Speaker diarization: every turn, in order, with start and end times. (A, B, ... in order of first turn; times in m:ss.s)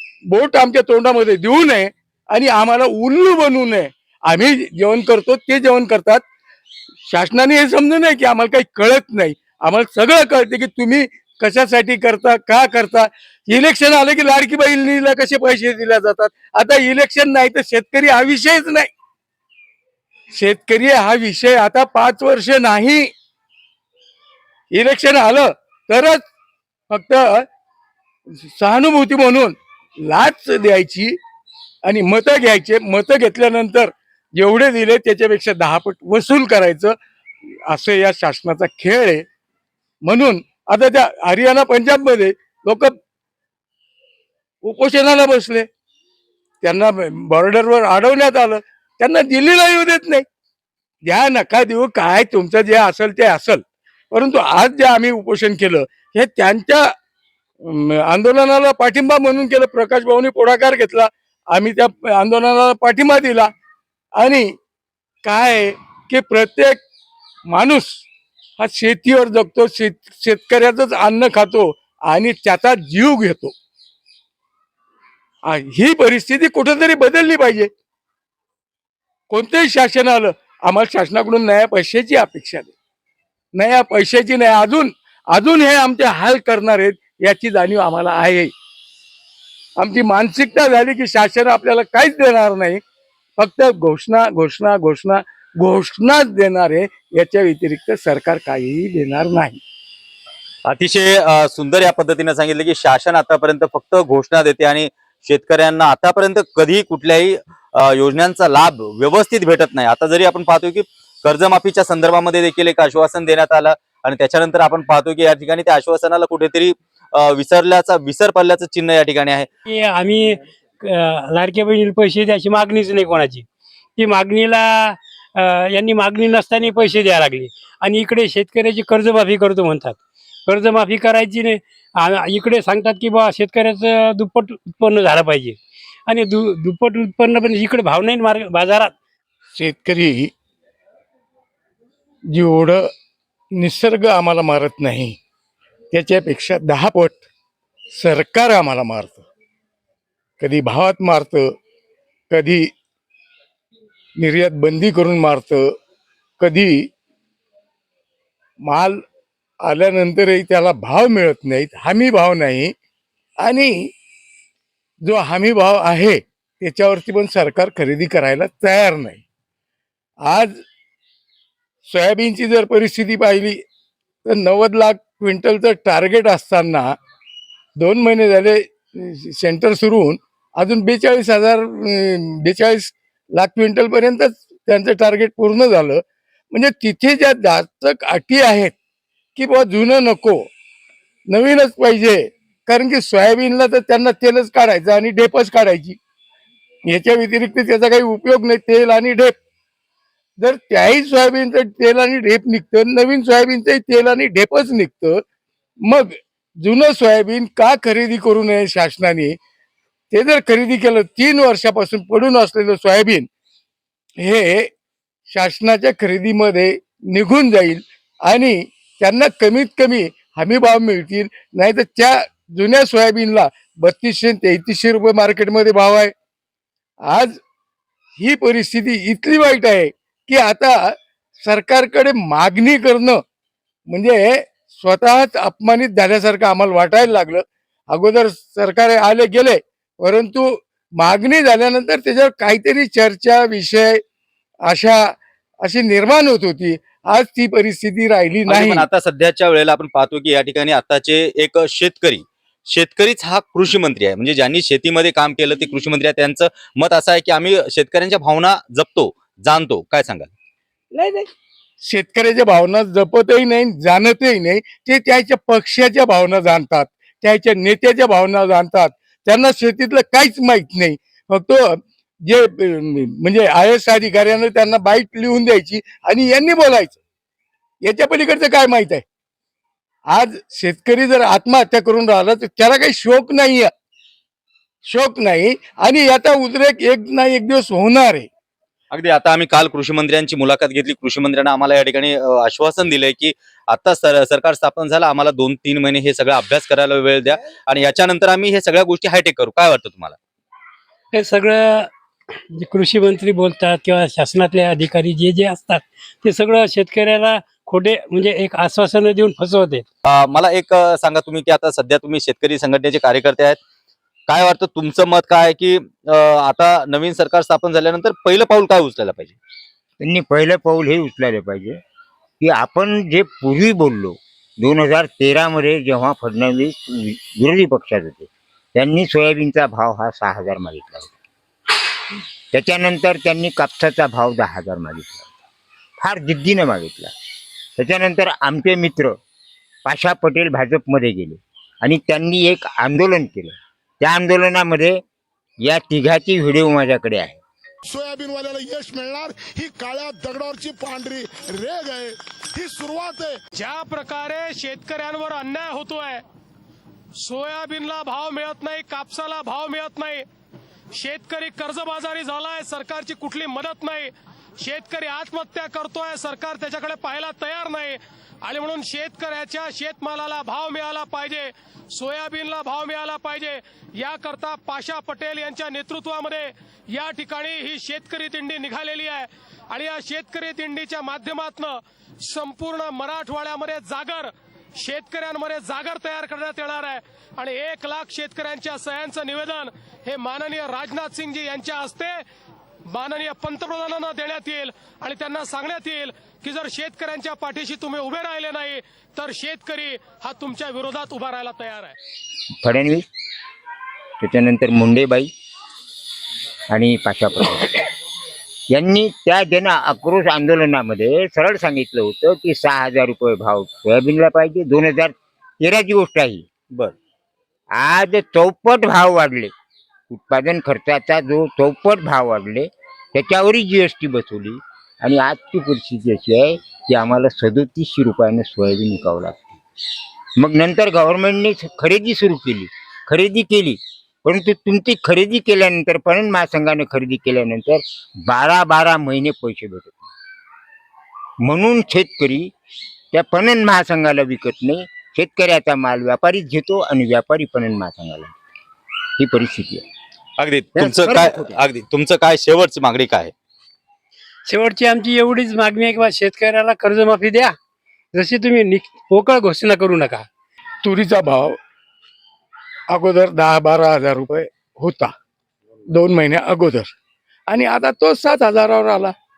0:00.3-0:06.2 A
0:07.1-0:18.9 A
0:20.3-0:23.1 A
0:24.7-0:26.2 A
0:26.9-0:27.5 A
0:28.4-0:31.2 A
0:31.8-0:36.9 A
0:37.7-0:39.2 A
0:40.0-0:43.0 A
0:44.6-0:45.7 A
0:46.6-0:50.2 A
0:51.0-0:56.9 A
0:57.6-1:03.5 A
1:04.2-1:04.5 A
1:05.2-1:06.8 A
1:07.5-1:08.0 A
1:08.6-1:13.5 A
1:15.4-1:17.7 A
1:19.3-1:22.7 A
1:23.5-1:28.5 A
1:29.8-1:32.8 A
1:33.4-1:39.6 A
1:40.7-1:59.4 B
1:59.7-2:03.4 C
2:04.0-2:18.9 C
2:19.5-2:20.3 A
2:22.3-2:22.9 A
2:23.6-2:25.2 A
2:25.9-2:27.2 A
2:27.9-2:29.2 A
2:30.4-2:31.5 A
2:32.3-2:32.7 A
2:34.2-2:35.7 A
2:36.4-2:36.9 A
2:38.6-2:39.0 A
2:39.6-2:42.7 A
2:43.4-2:43.9 A
2:45.0-2:49.2 A
2:50.2-2:50.5 A
2:51.8-2:53.6 A
2:54.2-2:56.9 A
2:57.8-3:08.7 A
3:09.4-3:10.5 A
3:11.3-3:16.0 A
3:16.9-3:19.3 A
3:20.4-3:25.2 A
3:25.8-3:29.4 A
3:30.1-3:33.3 A
3:34.2-3:34.7 A
3:35.3-3:46.1 A
3:47.1-3:47.4 A
3:48.2-3:53.2 A
3:53.9-4:04.0 A
4:04.7-4:08.8 A
4:08.5-4:20.3 B
4:20.9-4:21.3 A
4:21.8-4:37.0 A
4:37.8-4:39.0 A
4:40.1-4:43.7 A
4:44.8-4:48.3 A
4:48.9-5:00.1 B
5:01.1-5:01.9 C
5:02.5-5:09.8 C
5:10.0-5:13.6 B
5:14.3-5:19.3 B
5:20.0-5:21.8 D
5:22.4-5:31.1 D
5:32.5-5:35.3 D
5:36.0-5:37.1 D
5:37.8-5:39.2 D
5:39.8-5:45.0 D
5:45.6-5:47.4 D
5:47.8-5:53.4 E
5:53.5-5:56.2 F
5:57.2-6:00.2 F
6:00.9-6:32.2 F
6:32.9-6:42.0 F
6:42.6-6:43.0 D
6:44.2-6:45.3 D
6:46.7-6:47.8 D
6:48.7-6:56.4 D
6:57.8-6:59.5 D
7:00.1-7:09.5 D
7:10.4-7:20.1 D
7:21.4-7:22.5 D
7:23.1-7:28.3 D
7:29.2-7:29.8 D
7:30.4-7:33.3 B
7:30.8-7:31.6 D
7:34.4-7:37.6 C
7:38.1-7:40.3 C
7:40.8-7:41.6 A
7:42.9-7:45.1 A
7:45.9-7:46.9 A
7:47.5-7:49.1 A